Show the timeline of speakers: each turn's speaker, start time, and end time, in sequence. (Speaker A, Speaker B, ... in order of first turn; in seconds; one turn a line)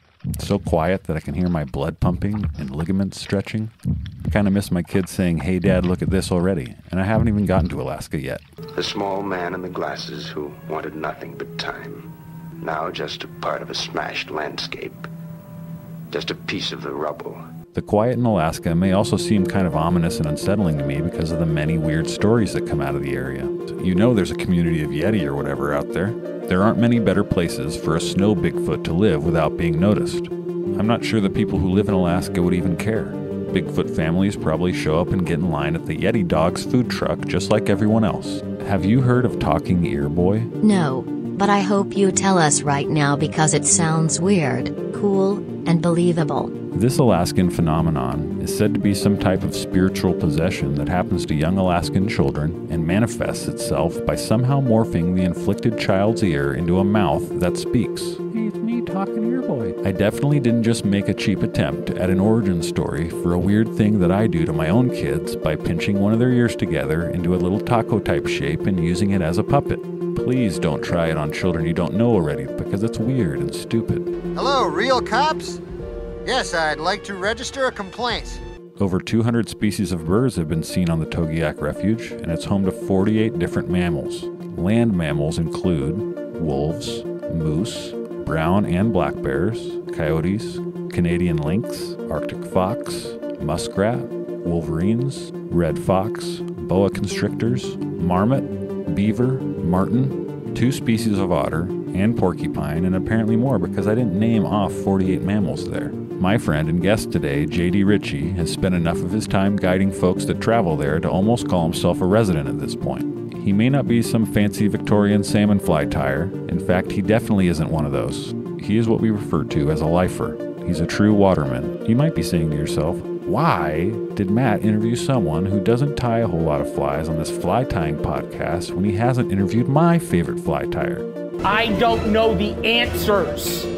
Speaker A: 0.4-3.7
Speaker A: 4.3-8.4
Speaker B: 8.8-12.1
Speaker B: 12.6-15.1
Speaker B: 16.1-17.4
Speaker A: 17.7-40.5
Speaker C: 40.6-46.5
Speaker A: 46.7-74.1
Speaker D: 74.3-75.6
Speaker D: 76.2-78.4
Speaker A: 78.8-131.1
Speaker E: 131.4-133.7